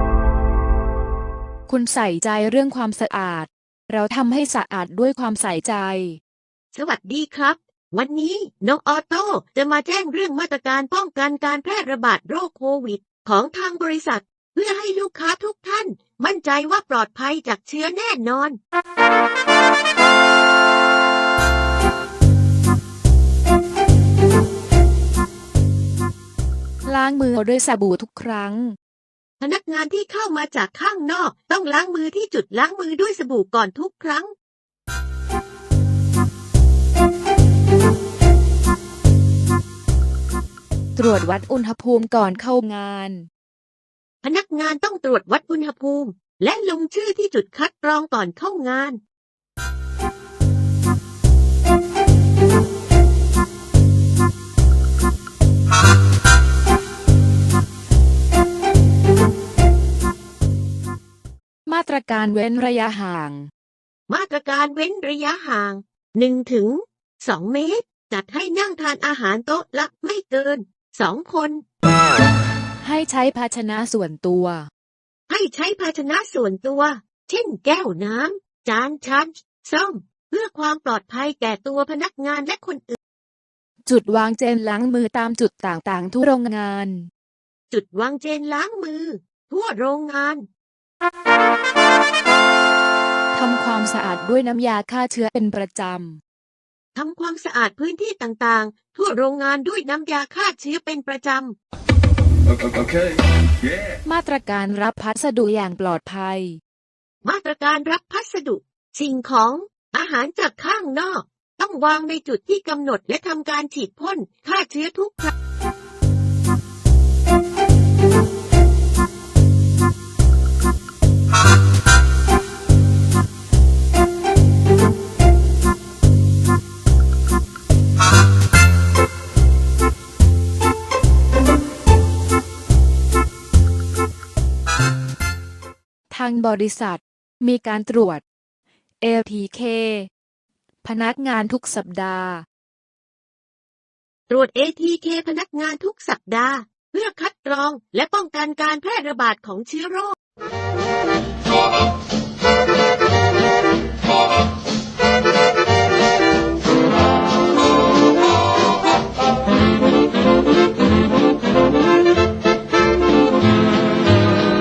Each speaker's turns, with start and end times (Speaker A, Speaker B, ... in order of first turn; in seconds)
Speaker A: 1.7-6.2, 26.9-28.8, 41.0-43.3, 61.6-63.5, 72.8-74.7, 83.8-87.1, 93.3-96.2, 104.0-106.6, 136.1-138.2, 139.0-140.1, 140.8-142.4
Speaker B: 6.7-18.6, 29.4-34.3, 44.2-49.0, 64.1-71.6, 75.3-83.0, 87.7-90.5, 96.9-101.6, 107.2-115.3, 144.3-150.1